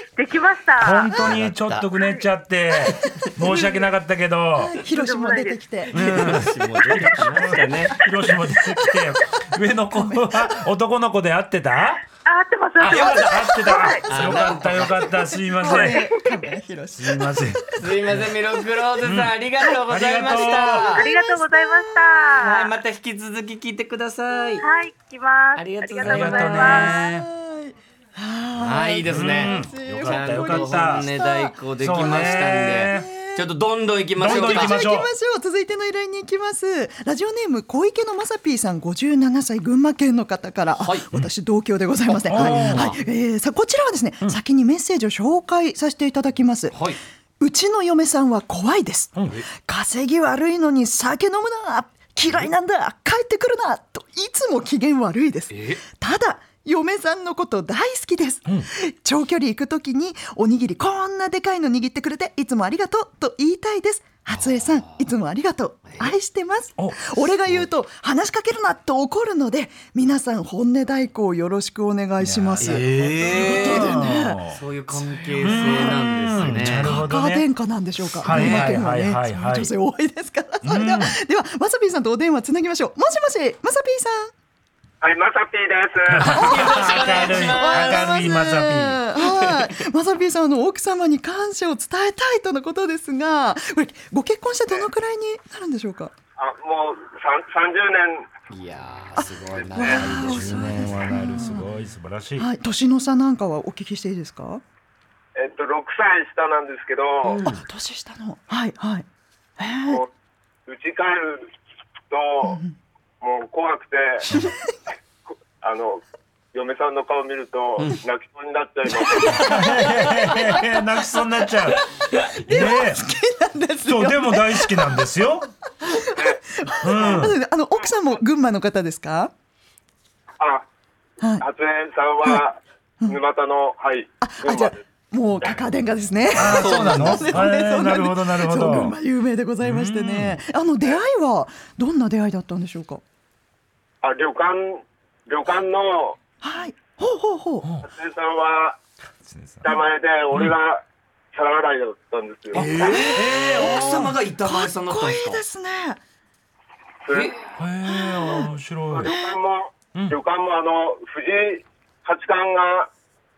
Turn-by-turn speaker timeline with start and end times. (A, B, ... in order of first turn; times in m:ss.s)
0:00.1-0:01.3 A
0:00.8-0:04.7 B
0:01.1-0:01.9 C
0:02.0-0:02.3 A
0:02.8-0:03.3 C
0:03.4-0:03.9 D
0:04.5-0:06.2 D
0:04.8-0:05.6 A
0:05.9-0:08.1 C
0:05.9-0:12.0 B
0:09.9-0:10.4 D
0:12.2-0:14.0 A
0:12.8-0:16.0 B
0:14.1-0:15.1 C
0:15.5-0:17.6 D
0:15.6-0:16.2 A
0:17.0-0:18.3 B
0:17.8-0:21.0 C
0:19.0-0:19.3 B
0:19.8-0:20.9 B
0:20.8-0:22.2 D
0:20.9-0:22.7 A
0:22.4-0:24.6 C
0:24.6-0:27.0 A
0:25.6-0:26.9 C
0:26.0-0:27.2 B
0:26.8-0:31.6 D
0:28.6-0:34.8 C
0:29.0-0:31.1 B
0:31.8-0:33.1 B
0:32.7-0:33.4 D
0:34.2-0:35.1 B
0:34.2-0:46.8 D
0:40.8-0:41.0 C
0:42.3-0:42.9 B
0:42.3-0:43.0 C
0:46.7-0:47.0 C
0:47.4-1:14.4 D
0:55.5-0:55.8 C
1:04.3-1:05.0 C
1:06.8-1:07.2 B
1:12.2-1:14.6 B
1:12.6-1:16.9 C
1:15.4-1:17.5 B
1:15.5-1:16.0 D
1:16.6-1:24.3 D
1:18.2-1:19.7 B
1:18.3-1:18.8 C
1:20.6-1:21.1 B
1:25.0-1:26.4 E
1:26.1-1:29.0 B
1:26.2-1:28.3 C
1:26.3-1:36.1 D
1:26.9-1:27.4 E
1:36.4-1:38.3 E
1:38.5-1:40.9 C
1:39.1-1:41.7 D
1:39.5-1:40.2 E
1:39.9-1:42.4 B
1:42.4-1:44.6 D
1:45.4-1:47.4 E
1:47.2-1:47.6 C
1:47.4-1:49.0 D
1:49.6-1:50.0 D
1:50.7-1:51.5 E
1:52.1-1:52.6 E
1:52.4-1:52.7 D
1:53.2-1:54.2 E
1:55.6-1:59.8 E
1:59.1-2:00.2 C
1:59.2-1:59.5 D
1:59.2-2:01.8 B
2:02.4-2:03.1 B
2:02.5-2:05.1 D
2:03.8-2:05.5 B
2:05.8-2:09.3 D
2:06.1-2:07.9 E
2:06.8-2:07.3 B
2:10.4-2:10.6 E
2:11.2-2:11.4 D
2:11.4-2:14.8 E
2:14.2-2:23.0 D
2:16.3-2:18.9 B
2:16.3-2:17.5 C
2:19.6-2:20.4 B
2:24.0-2:26.2 E
2:26.4-2:27.7 D
2:27.6-2:27.9 B
2:27.8-2:28.8 E
2:29.2-2:29.8 B
2:29.6-2:32.7 E
2:32.5-2:34.2 B
2:32.5-2:35.4 C
2:32.8-2:36.0 D
2:37.0-2:37.4 E
2:37.1-2:37.5 C
2:37.6-2:39.1 B
2:37.8-2:38.5 D
2:38.9-2:42.9 E
2:39.0-2:39.4 D